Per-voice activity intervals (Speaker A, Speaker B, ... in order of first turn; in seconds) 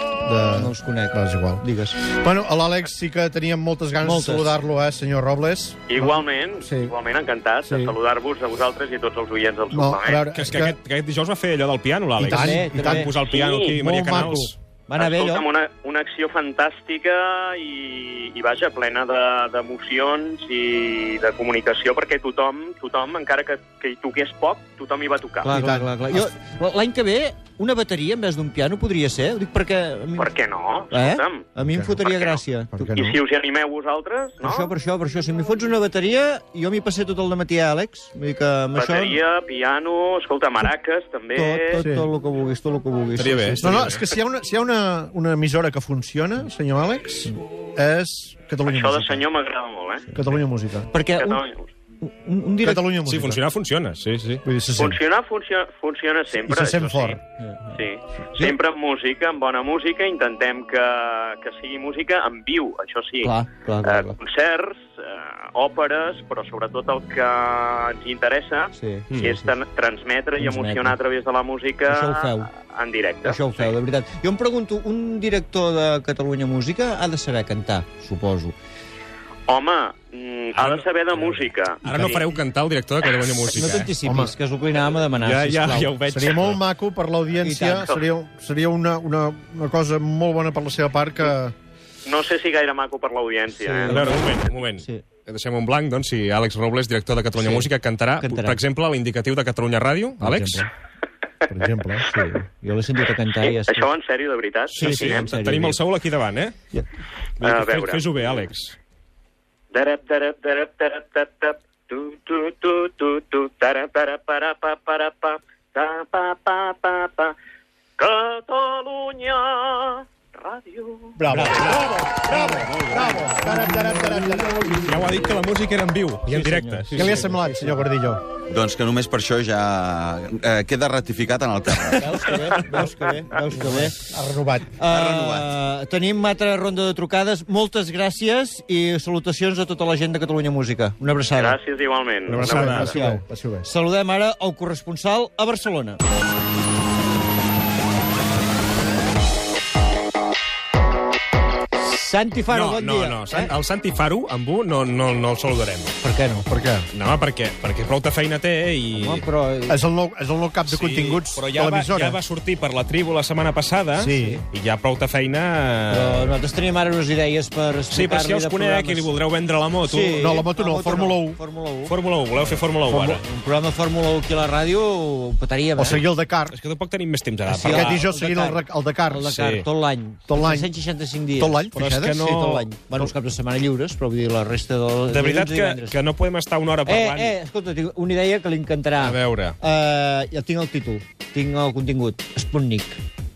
Speaker A: 0.2-6.9, 7.6-8.0, 9.7-10.8, 12.2-14.5, 25.5-26.3, 31.6-32.0, 32.7-33.2, 41.8-42.1, 43.6-49.3, 50.1-50.9, 52.6-53.4, 54.5-55.0, 56.3-57.2, 84.0-84.3, 86.1-91.5, 101.5-102.1, 121.2-124.6, 126.9-128.2, 133.5-134.8, 142.4-143.7, 156.5-156.9, 159.7-162.2, 164.0-164.4, 170.2-171.4, 172.9-173.2, 175.8-176.6, 177.6-179.3, 180.3-180.7, 181.4-182.2
Speaker B: 0.5-2.0, 4.0-4.5, 12.2-13.1, 14.9-15.5, 25.4-30.3, 30.9-33.2, 34.4-39.2, 41.3-44.0, 50.9-51.4, 52.0-52.9, 57.4-57.8, 63.2-64.2, 68.8-69.5, 70.4-71.0, 71.9-72.5, 73.2-78.5, 81.9-82.2, 83.5-86.0, 87.4-87.9, 93.5-95.0, 97.4-97.7, 98.2-98.6, 100.2-100.7, 102.0-103.9, 104.7-105.8, 126.3-127.9, 132.0-134.0, 134.8-141.6, 142.4-146.0, 151.8-153.5, 156.0-156.5, 158.9-159.8, 164.2-164.4, 165.9-169.1, 169.8-176.0, 177.5-186.0, 186.8-193.0
Speaker C: 5.9-10.2, 13.3-13.7, 15.0-25.5, 30.2-31.4, 32.0-32.4, 33.0-34.7, 38.8-41.8, 48.7-50.1, 51.2-51.7, 54.8-57.2, 57.8-63.3, 63.8-73.7, 79.5-81.8, 92.0-94.0, 103.4-105.2, 107.4-108.1, 109.7-117.3, 118.0-121.1, 141.4-142.5
Speaker D: 10.3-14.6, 43.2-44.0, 53.1-54.4, 69.1-69.3, 80.5-83.9, 85.2-86.6, 93.9-100.7, 104.7-106.5, 107.4-108.8, 121.3-123.3, 124.9-127.2, 142.3-143.0, 152.5-156.0, 156.9-159.2, 160.7-166.3, 167.9-170.4, 171.9-173.2, 176.5-178.0, 179.3-179.7, 181.8-182.7, 185.1-187.3, 189.0-189.6
Speaker E: 128.5-132.5, 134.9-135.5